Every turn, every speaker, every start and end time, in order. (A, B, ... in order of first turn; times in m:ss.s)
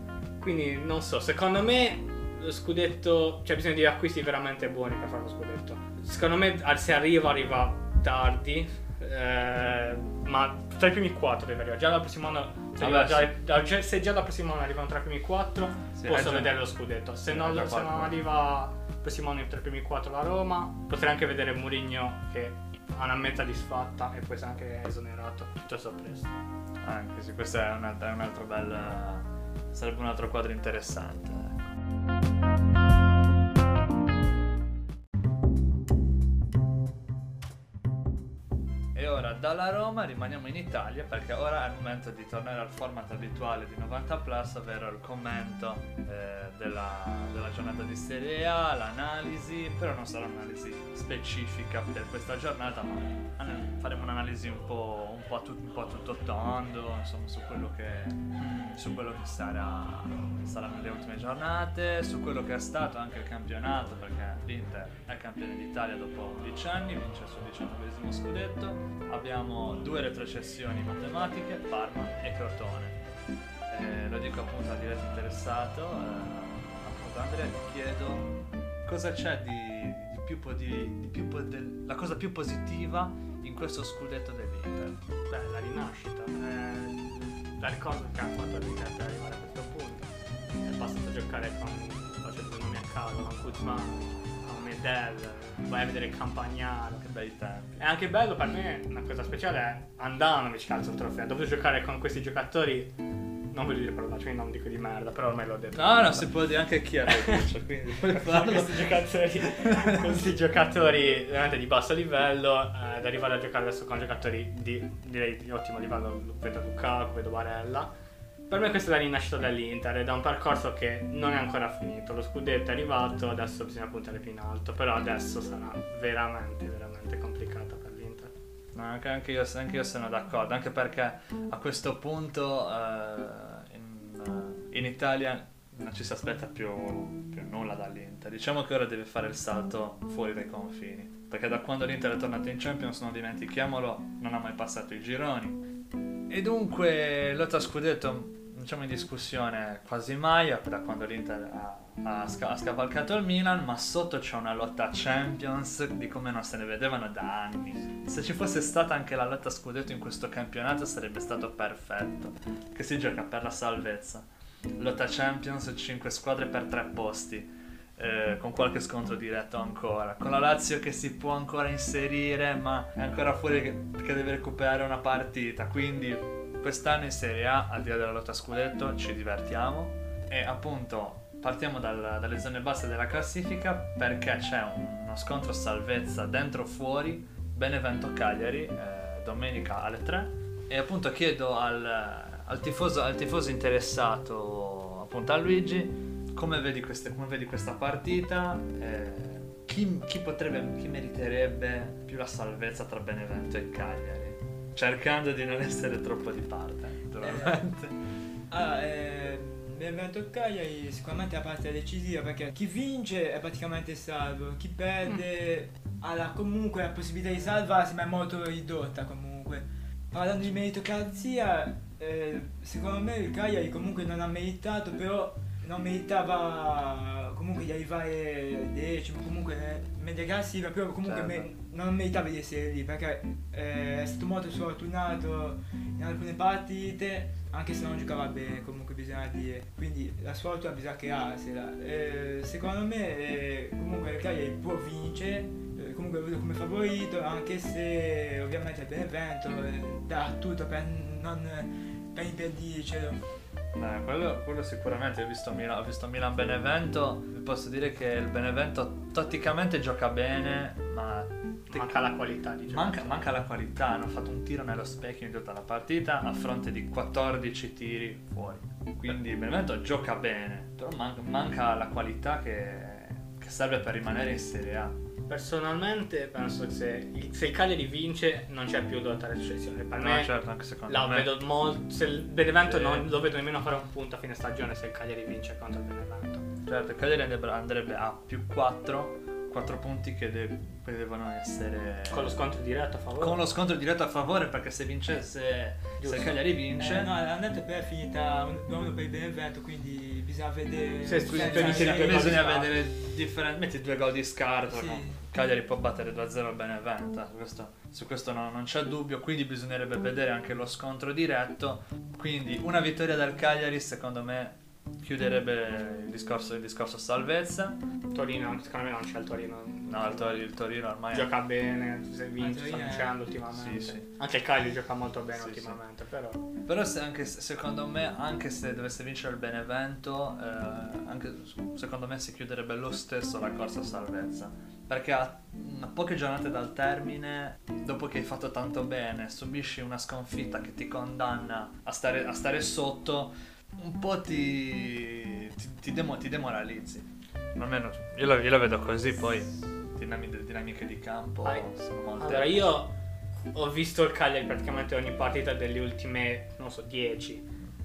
0:00.4-0:26.3 A
0:12.8-0:13.3 B
0:16.0-0:16.6 B
0:17.3-0:18.2 B
0:26.8-0:31.6 B
0:39.0-1:13.0 B
1:13.7-1:25.0 B
1:25.3-1:30.1 A
1:30.6-1:37.0 A
1:37.0-1:37.8 B
1:37.8-1:42.9 A
1:43.5-1:46.3 A
1:45.7-1:50.0 B
1:47.1-1:57.9 A
1:58.5-2:08.3 A
2:08.8-2:25.6 B
2:26.3-3:28.0 B
3:27.2-3:27.6 C
3:28.5-4:13.2 C
3:51.0-3:51.5 B
4:13.8-4:22.1 B
4:21.7-4:23.3 A
4:22.7-4:35.0 B
4:35.3-4:40.3 A
4:40.0-4:41.3 B
4:40.9-4:46.4 A
4:42.6-4:43.1 B
4:46.7-4:52.4 B
4:52.1-4:53.4 A
4:53.2-4:57.1 B
4:56.0-4:56.4 A
4:56.8-5:02.4 C
5:01.0-5:02.7 A
5:01.3-5:17.8 B
5:04.7-5:05.2 C
5:18.1-5:20.4 A
5:19.9-5:21.3 B
5:21.1-5:26.4 A
5:22.4-5:23.2 C
5:23.5-5:24.1 B
5:25.3-5:25.8 B
5:26.6-5:52.8 B
5:51.4-5:52.9 A
5:53.5-5:57.5 A